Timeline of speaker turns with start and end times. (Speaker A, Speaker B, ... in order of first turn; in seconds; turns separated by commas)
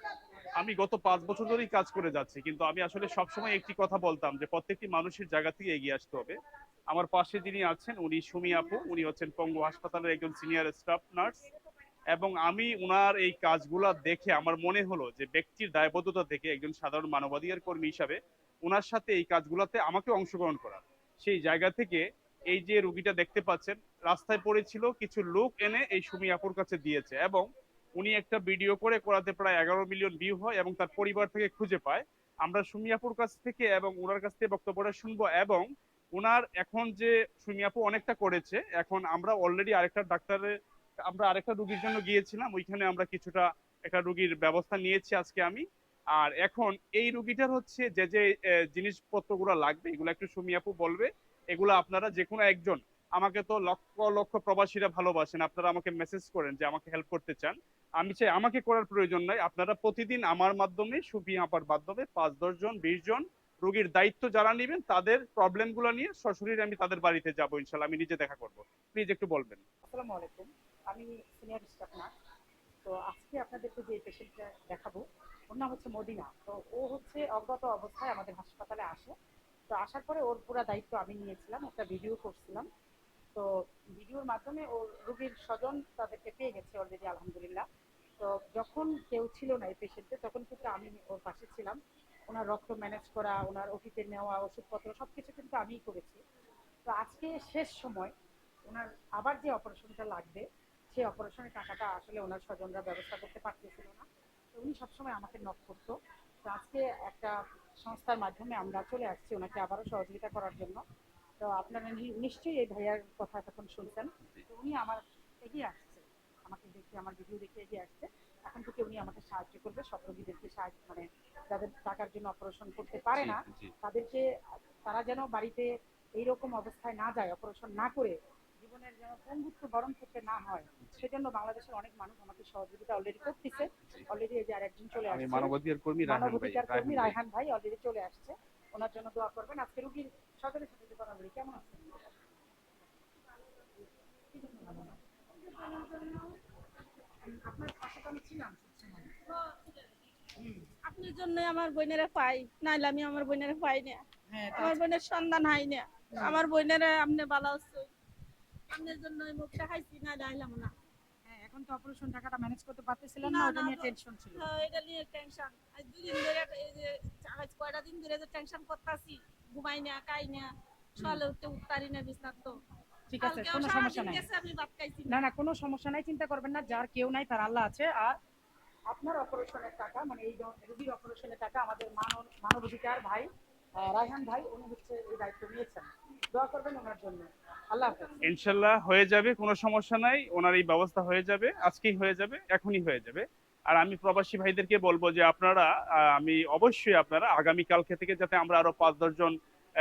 Speaker A: 0.6-6.4, Speaker A: 6.9-11.4, Speaker A: 12.1-27.5, Speaker A: 28.0-35.7, Speaker A: 36.2-40.5, Speaker A: 41.1-45.6, Speaker A: 46.2-69.6, Speaker B: 69.9-72.1, Speaker B: 72.9-75.0, Speaker B: 75.5-79.1, Speaker B: 79.7-82.7, Speaker B: 84.0-87.7, Speaker B: 88.2-91.8, Speaker B: 92.3-96.2, Speaker B: 96.9-98.1, Speaker B: 98.7-105.9, Speaker B: 106.5-110.8, Speaker B: 111.4-124.2, Speaker A: 123.2-123.7, Speaker B: 124.9-142.0, Speaker A: 135.1-137.2, Speaker B: 144.3-145.0, Speaker B: 145.5-146.3, Speaker B: 147.2-149.1, Speaker C: 149.3-149.8, Speaker B: 150.4-150.7, Speaker C: 150.8-154.0, Speaker B: 154.3-154.8, Speaker C: 154.6-157.9, Speaker B: 156.2-156.4, Speaker C: 158.7-160.7, Speaker B: 161.3-164.4, Speaker C: 163.2-172.6, Speaker B: 171.0-171.2, Speaker B: 173.1-174.2, Speaker C: 173.2-175.2, Speaker B: 175.1-178.1, Speaker B: 178.9-183.3, Speaker B: 183.8-188.2, Speaker A: 188.2-199.3